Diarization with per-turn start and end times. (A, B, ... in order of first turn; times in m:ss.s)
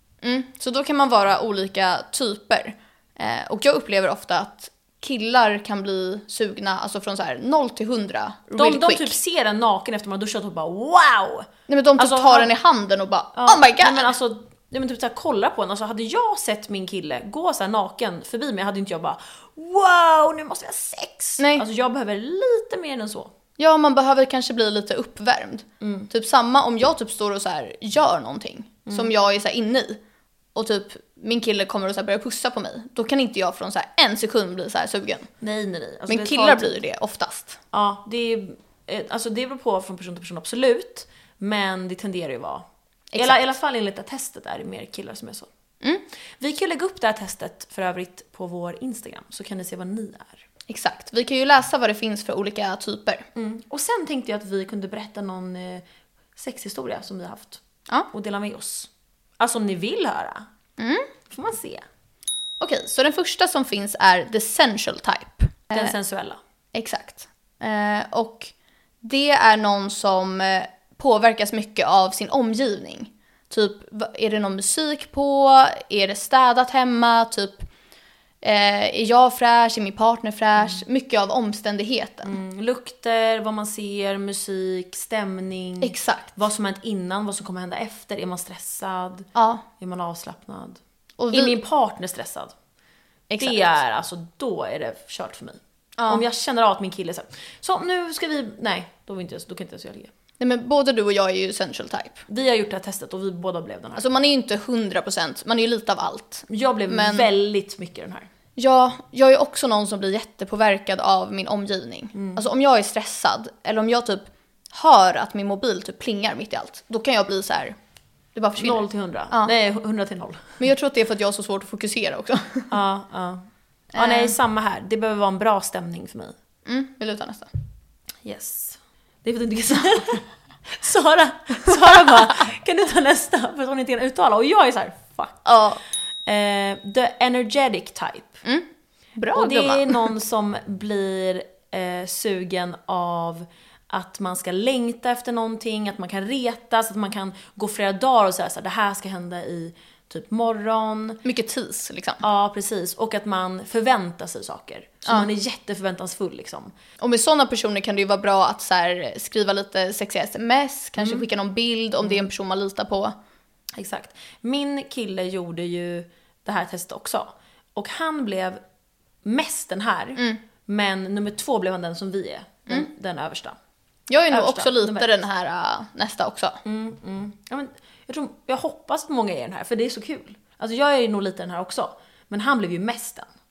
0:00.2-0:09.2 A
0:08.6-0:12.5 B
0:11.7-0:14.1 A
0:13.4-0:23.3 B
0:21.4-0:21.6 A
0:23.6-0:30.0 A
0:25.8-0:26.1 B
0:30.6-0:35.3 A
0:35.4-0:36.8 B
0:36.1-0:37.6 A
0:37.7-0:42.7 B
0:43.1-0:43.4 A
0:43.2-0:45.5 B
0:46.4-0:50.4 B
0:50.7-0:53.3 A
0:53.4-0:55.8 B
0:56.4-1:00.5 B
1:00.8-1:01.1 A
1:01.3-1:01.9 B
1:02.6-1:06.0 A
1:05.7-1:06.4 B
1:06.7-1:17.7 A
1:18.4-1:22.4 A
1:22.2-1:30.8 B
1:25.8-1:26.3 A
1:29.4-1:29.6 A
1:31.2-1:31.6 A
1:31.3-1:32.6 B
1:33.3-1:33.8 A
1:33.4-1:40.1 B
1:36.0-1:36.3 A
1:40.4-1:42.2 A
1:42.3-1:44.0 B
1:44.0-1:47.3 A
1:46.5-1:48.3 B
1:48.6-1:57.8 A
1:52.2-1:52.4 B
1:58.4-1:59.5 A
1:58.6-2:00.6 B
2:00.6-2:02.7 A
2:02.7-2:06.4 B
2:03.9-2:04.4 A
2:06.7-2:07.5 A
2:08.2-2:15.5 B
2:15.4-2:15.8 A
2:16.3-2:18.4 B
2:18.4-2:20.1 A
2:19.3-2:31.2 B
2:31.2-2:32.2 A
2:32.2-2:36.7 B
2:37.0-2:43.1 A
2:43.7-2:48.6 B
2:49.2-2:53.6 B
2:54.1-2:56.6 A
2:54.3-2:55.1 B
2:56.6-3:03.3 B